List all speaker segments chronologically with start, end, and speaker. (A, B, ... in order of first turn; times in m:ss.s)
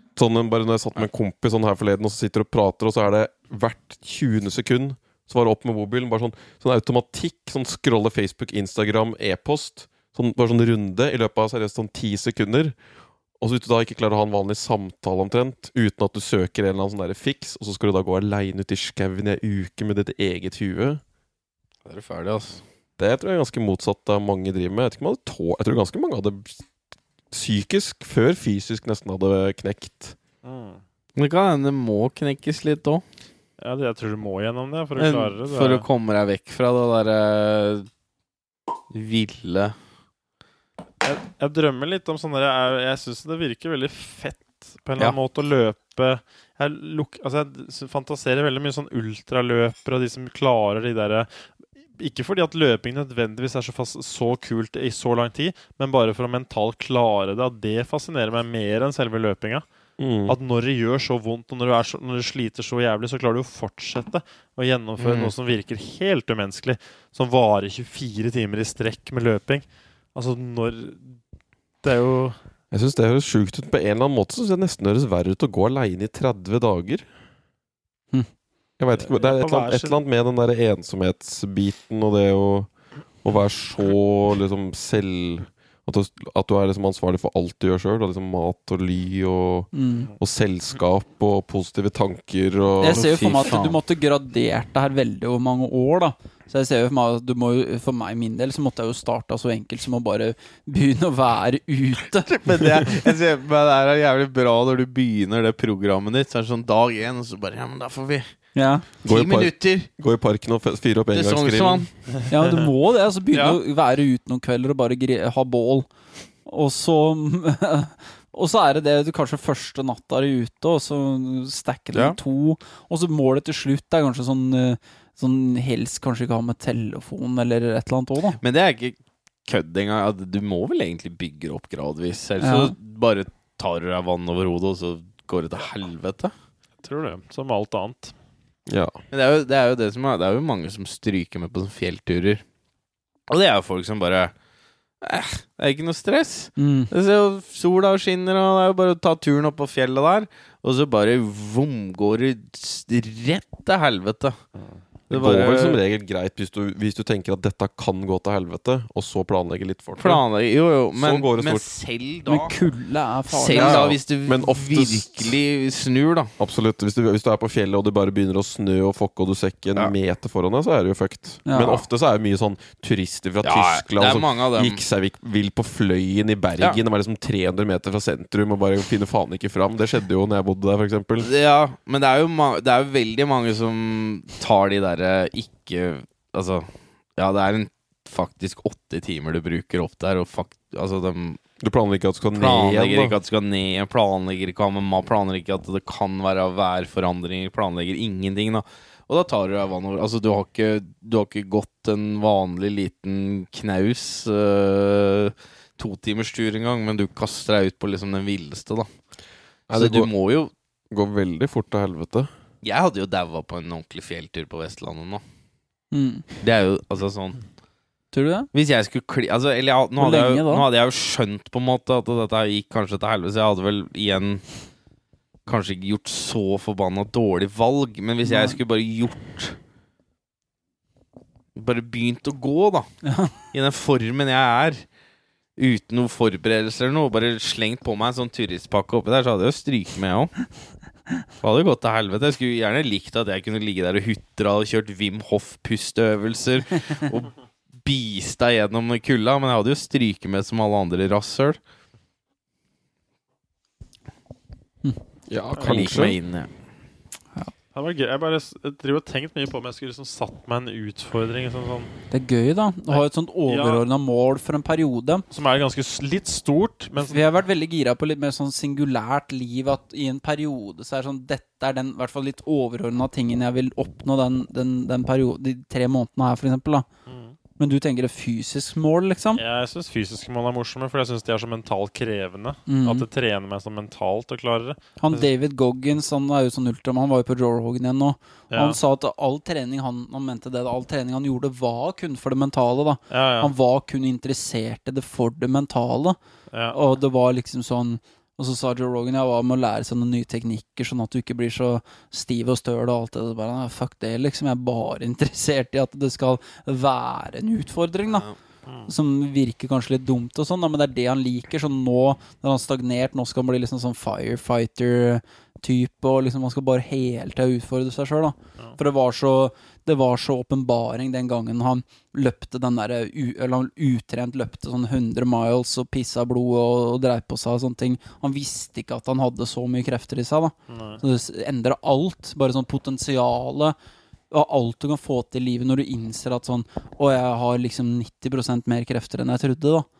0:00.2-0:12.8 A
0:13.4-0:21.0 A
0:21.8-0:22.6 B
0:23.0-0:26.6 A
0:27.3-0:30.2 A
0:30.4-0:30.8 C
0:31.2-0:33.0 B
0:33.6-0:35.8 C
0:35.0-0:37.9 B
0:38.9-0:39.7 B
0:41.0-0:51.3 C
0:52.0-0:59.6 C
1:00.0-1:00.4 A
1:00.3-1:11.2 C
1:05.0-1:05.3 B
1:11.8-1:12.4 C
1:12.7-1:17.0 A
1:18.8-1:22.7 A
1:19.0-1:20.0 C
1:23.2-1:33.1 A
1:29.7-1:30.1 D
1:32.8-1:42.8 D
1:32.8-1:33.8 B
1:42.3-1:48.2 B
1:48.5-1:48.8 D
1:49.0-1:51.9 A
1:49.0-1:49.9 B
1:51.1-1:51.9 B
1:52.3-1:55.9 D
1:52.3-1:52.6 C
1:56.4-2:08.4 D
2:08.4-2:16.3 B
2:12.4-2:12.7 D
2:16.8-2:18.1 C
2:18.7-2:19.0 A
2:19.1-2:22.4 B
2:23.3-2:24.3 B
2:25.0-2:34.4 B
2:26.6-2:26.9 D
2:35.1-2:35.8 B
2:35.1-2:40.2 A
2:40.0-2:42.5 B
2:41.0-2:41.6 A
2:42.2-2:43.9 D
2:43.3-2:46.3 B
2:43.5-2:45.4 A
2:46.4-3:01.3 A
2:51.4-2:51.8 D
2:53.4-2:54.8 B
3:01.2-3:11.4 B
3:11.6-3:13.2 A
3:12.3-3:28.9 B
3:29.7-3:30.1 A
3:29.7-3:30.5 B
3:30.9-3:32.3 A
3:32.6-3:35.2 B
3:35.9-3:36.2 D
3:36.4-3:37.4 B
3:38.1-3:38.5 D
3:38.5-3:44.4 B
3:40.0-3:40.7 D
3:45.4-3:49.6 B
3:48.2-3:48.6 D
3:51.6-3:52.9 B
3:53.0-3:53.3 D
3:53.5-3:54.8 B
3:55.6-4:00.3 B
4:01.4-4:07.3 B
4:07.8-4:11.6 B
4:15.3-4:16.2 A
4:15.6-4:16.0 C
4:15.6-4:16.5 B
4:17.7-4:21.9 C
4:22.1-4:25.2 D
4:22.9-4:23.8 C
4:25.3-4:27.2 C
4:27.0-4:36.9 D
4:37.1-4:37.4 C
4:37.6-4:39.4 D
4:39.4-4:45.3 C
4:42.7-4:43.0 D
4:45.0-4:56.2 D
4:48.5-4:48.8 C
4:53.1-4:53.5 C
4:56.5-4:56.8 C
4:56.7-5:08.3 D
5:08.1-5:08.3 B
5:08.6-5:08.9 C
5:08.9-5:33.8 D
5:30.7-5:31.0 C
5:34.3-5:39.9 D